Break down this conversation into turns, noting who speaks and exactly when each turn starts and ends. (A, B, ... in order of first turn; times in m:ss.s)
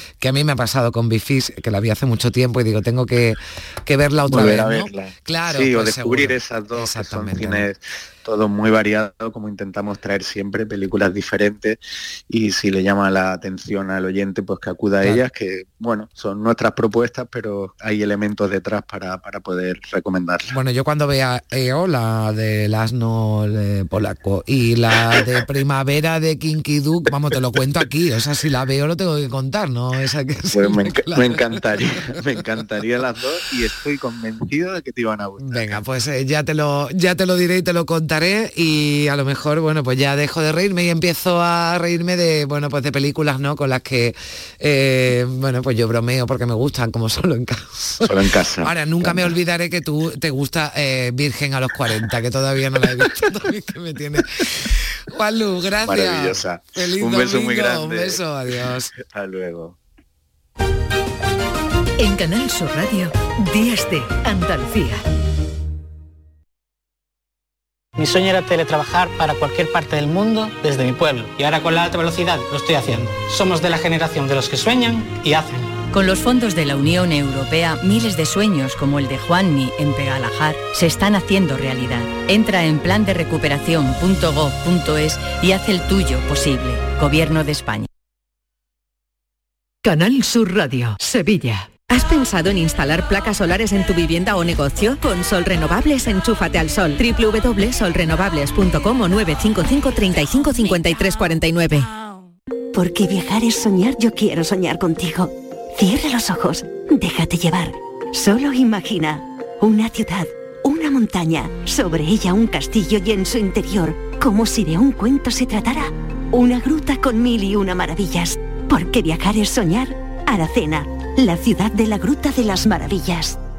0:00.2-0:07.6 A
0:04.3-0:11.8 B
0:12.3-0:20.5 B
0:20.5-0:31.4 A
0:30.5-0:35.8 B
0:35.4-0:58.9 A
0:48.0-0:49.4 B
0:55.8-0:59.8 B
1:02.0-1:05.0 C
1:08.0-1:15.7 D
1:15.9-1:27.9 E
1:29.8-1:31.8 C
1:31.9-1:41.8 F
1:42.7-2:03.4 G